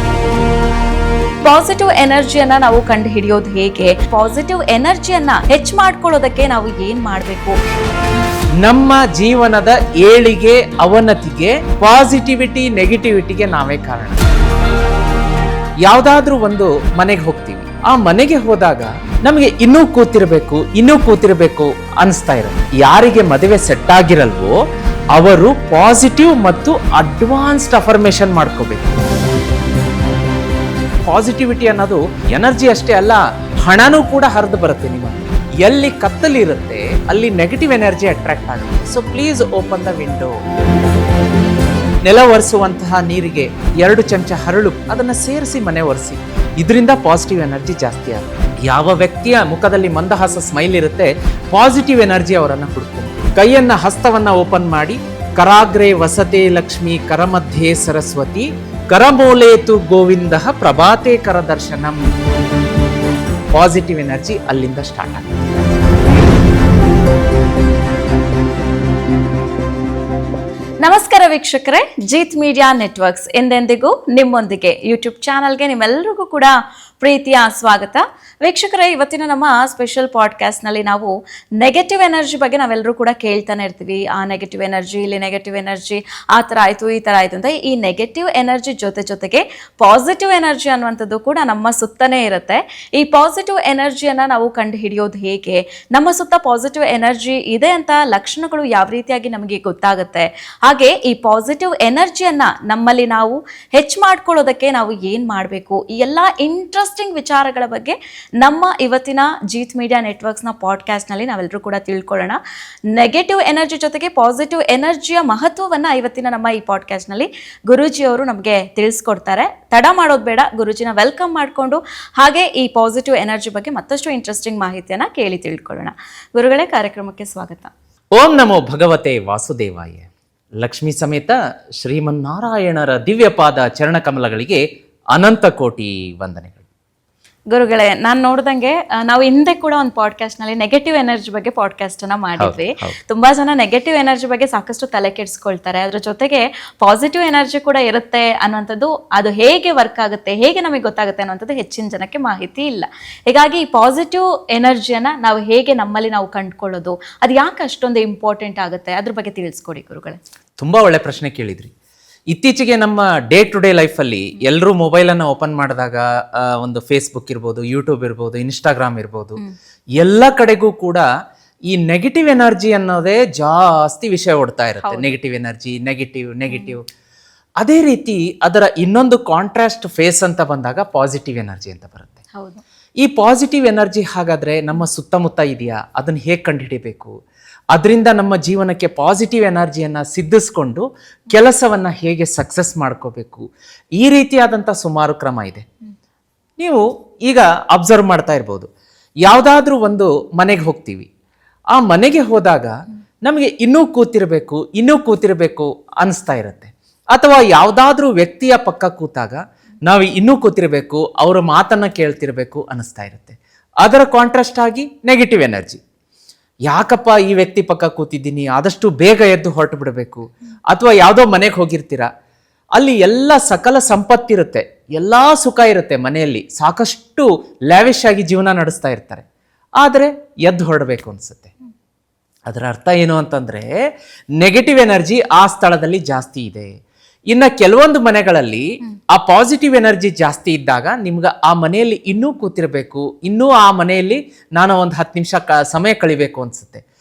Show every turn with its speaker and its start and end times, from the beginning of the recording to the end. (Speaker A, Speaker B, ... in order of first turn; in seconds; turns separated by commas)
Speaker A: 1.4-7.6, Speaker B: 8.6-14.2, Speaker B: 15.8-24.5, Speaker B: 25.1-29.0, Speaker B: 31.1-40.3, Speaker B: 42.0-62.0, Speaker B: 63.5-65.3, Speaker A: 70.8-112.4, Speaker A: 112.9-127.7, Speaker B: 128.2-130.1, Speaker B: 130.6-134.6, Speaker B: 135.1-136.6, Speaker A: 137.5-160.2, Speaker B: 142.4-142.9, Speaker B: 160.6-161.7, Speaker B: 162.3-169.4, Speaker B: 170.0-171.0, Speaker B: 171.7-176.8, Speaker A: 174.8-175.1, Speaker A: 176.5-176.8, Speaker B: 177.6-182.2, Speaker A: 182.3-182.6, Speaker B: 183.0-187.1, Speaker B: 187.7-193.5, Speaker B: 194.0-195.6, Speaker B: 196.6-198.7, Speaker B: 199.2-201.1, Speaker B: 201.7-202.7, Speaker B: 203.2-215.8, Speaker B: 216.7-222.1, Speaker B: 222.8-229.2, Speaker B: 229.8-231.5, Speaker B: 232.5-233.7, Speaker B: 234.4-236.7, Speaker B: 237.3-246.8